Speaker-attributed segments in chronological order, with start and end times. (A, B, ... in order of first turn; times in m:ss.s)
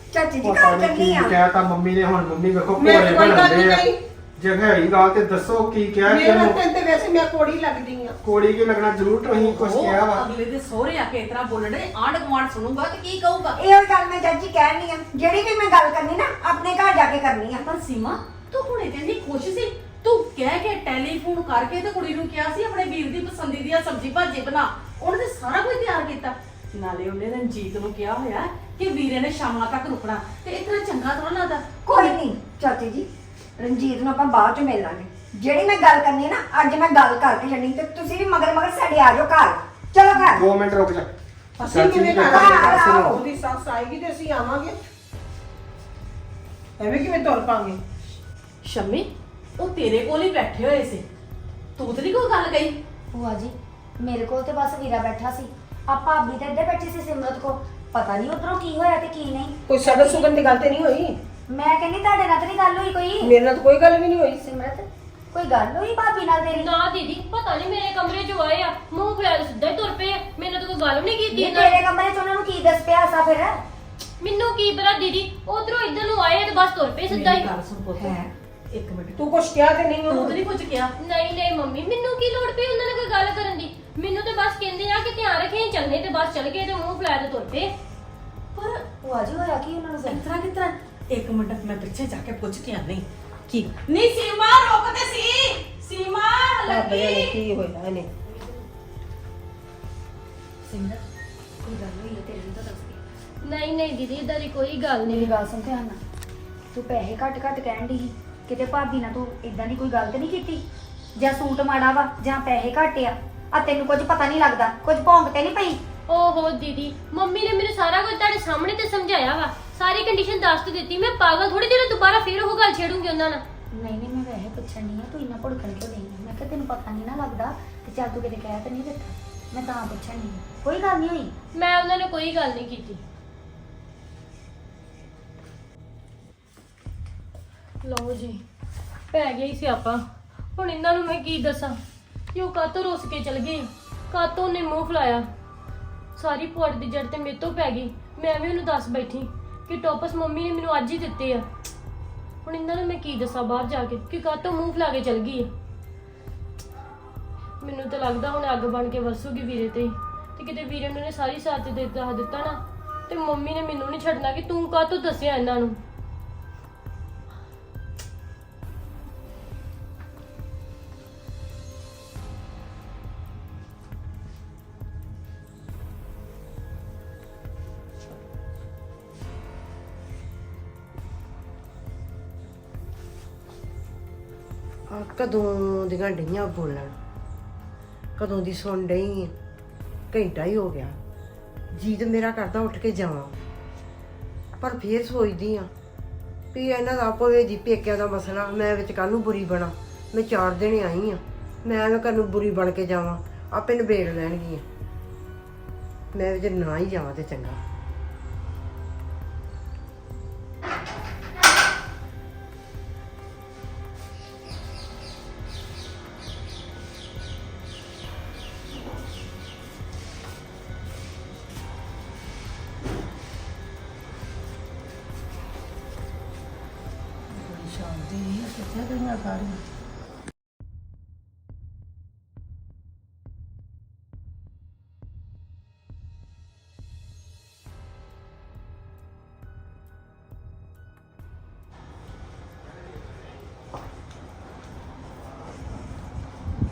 0:00.1-0:01.4 A
0:00.4-0:06.6 B
0:02.8-0:04.0 C
0:06.0-0:08.2 C
0:08.2-0:10.2 B
0:09.3-0:13.6 D
0:13.6-0:17.6 A
0:17.6-0:31.7 D
0:31.8-0:40.4 A
0:40.2-0:43.2 B
0:41.6-0:44.8 C
0:42.2-0:43.2 A
0:46.8-0:47.8 C
0:48.6-0:51.0 D
0:51.8-0:52.8 D
0:53.1-1:00.5 E
0:59.7-1:01.2 C
1:01.5-1:03.3 E
1:03.2-1:04.4 C
1:04.4-1:06.7 E
1:06.6-1:11.8 F
1:11.3-1:13.6 E
1:14.2-1:17.5 F
1:17.1-1:19.2 D
1:19.2-1:20.4 C
1:20.1-1:20.9 D
1:21.0-1:27.7 F
1:28.6-1:28.8 D
1:29.0-1:30.2 E
1:30.0-1:37.3 D
1:36.7-1:38.1 C
1:40.6-1:41.0 E
1:41.6-1:43.0 E
1:43.4-1:45.3 F
1:45.0-1:46.0 E
1:46.7-1:50.6 E
1:51.2-1:55.8 E
1:56.1-2:03.4 F
2:03.7-2:11.3 E
2:11.5-2:13.0 F
2:17.8-2:18.4 F
2:19.1-2:20.0 F
2:20.6-2:21.8 F
2:22.3-2:25.2 F
2:26.2-2:31.4 F
2:32.4-2:35.5 F
2:37.6-2:45.8 F
3:04.9-3:06.9 G
3:08.2-3:09.3 G
3:10.1-3:11.0 G
3:11.7-3:13.3 G
3:14.6-3:15.7 G
3:16.5-3:24.6 G
3:26.1-3:27.6 G
3:47.3-3:49.6 D